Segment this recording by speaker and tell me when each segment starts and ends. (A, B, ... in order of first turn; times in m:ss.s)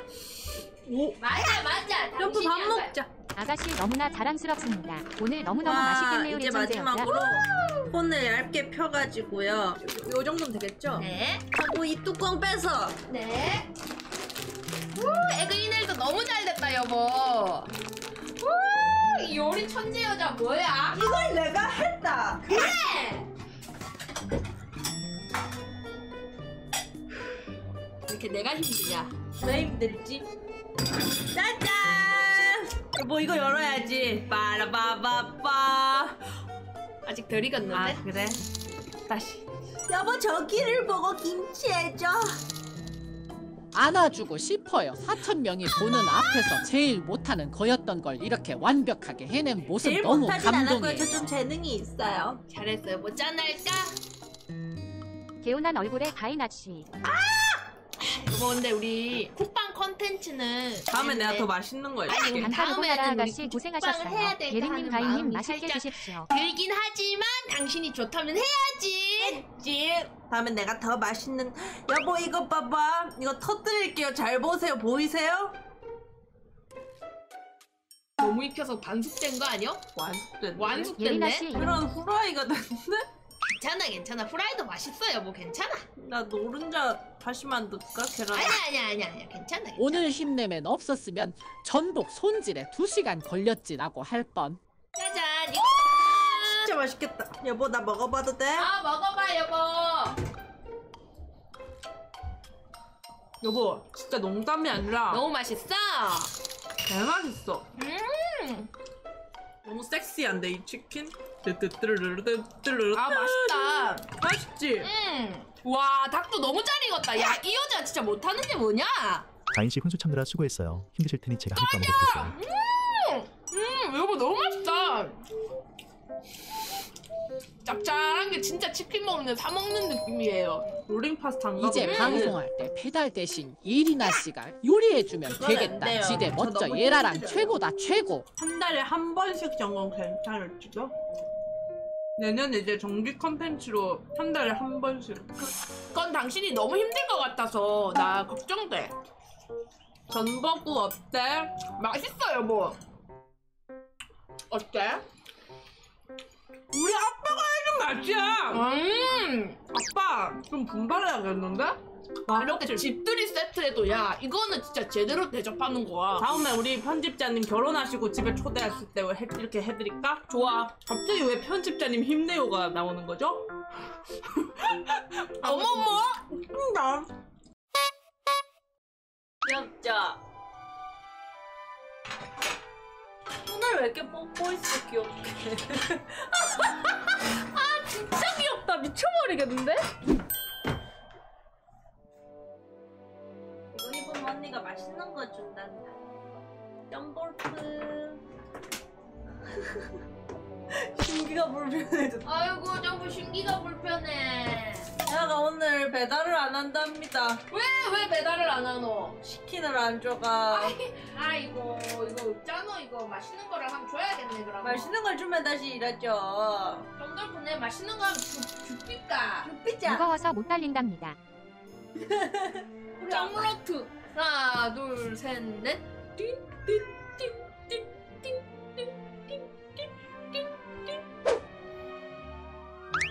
0:00.9-0:01.2 A
0:01.2-0:02.9 B
0:02.2-0:03.1 A
0:03.4-0:07.2 C
0:05.6-0:13.0 A
0:11.0-0:11.4 B
0:13.1-0:13.7 B
0:15.0-0:17.7 B
0:18.4-0:21.0 B
0:20.9-0:22.6 A
0:22.5-0:23.3 B
0:28.1-0:29.1 B
0:29.4-0:30.3 A
0:31.3-0:36.2 A
0:37.1-0:38.0 B
0:37.7-0:38.4 A
0:39.1-0:39.4 B
0:39.9-0:42.4 A
0:43.7-0:51.3 D
0:49.8-0:52.4 A
0:52.5-0:54.0 B
0:55.4-0:56.9 C
0:57.1-1:01.5 B
1:00.9-1:02.5 A
1:02.1-1:09.5 B
1:02.2-1:06.3 C
1:09.2-1:15.6 A
1:18.2-1:19.8 B
1:20.0-1:20.9 A
1:20.6-1:21.4 B
1:21.0-1:21.8 C
1:21.5-1:23.1 A
1:23.6-1:25.8 B
1:26.0-1:28.6 A
1:28.3-1:30.0 B
1:29.8-1:34.6 D
1:35.0-1:36.7 B
1:36.4-1:38.7 A
1:38.6-1:40.2 B
1:43.4-1:45.2 A
1:45.1-1:46.3 B
1:46.9-1:47.7 A
1:47.8-1:48.7 B
1:49.6-1:54.9 A
1:53.0-1:54.1 B
1:54.8-1:59.3 B
1:59.5-2:02.4 E
2:01.6-2:05.2 B
2:07.6-2:10.8 B
2:10.9-2:12.4 A
2:11.6-2:18.3 D
2:11.8-2:12.4 B
2:15.3-2:17.5 A
2:18.4-2:20.9 A
2:22.2-2:25.3 A
2:25.4-2:28.9 B
2:30.1-2:31.6 A
2:31.6-2:32.8 B
2:34.5-2:35.0 B
2:36.7-2:38.6 A
2:38.5-2:39.6 B
2:39.7-2:42.9 A
2:42.4-2:46.3 B
2:46.2-2:53.5 A
2:50.3-2:50.7 B
2:54.4-2:57.1 A
2:55.4-2:56.2 B
2:59.5-3:00.2 A
3:03.5-3:06.9 A
3:07.6-3:09.8 A
3:13.7-3:15.9 A
3:16.9-3:18.2 A
3:20.7-3:22.3 A
3:22.2-3:24.9 B
3:25.1-3:27.4 A
3:27.5-3:29.2 B
3:29.2-3:30.8 A
3:30.5-3:34.9 B
3:34.6-3:36.9 A
3:37.0-3:39.5 B
3:39.4-3:40.1 A
3:39.8-3:41.2 C
3:42.0-3:43.5 A
3:43.1-3:51.0 B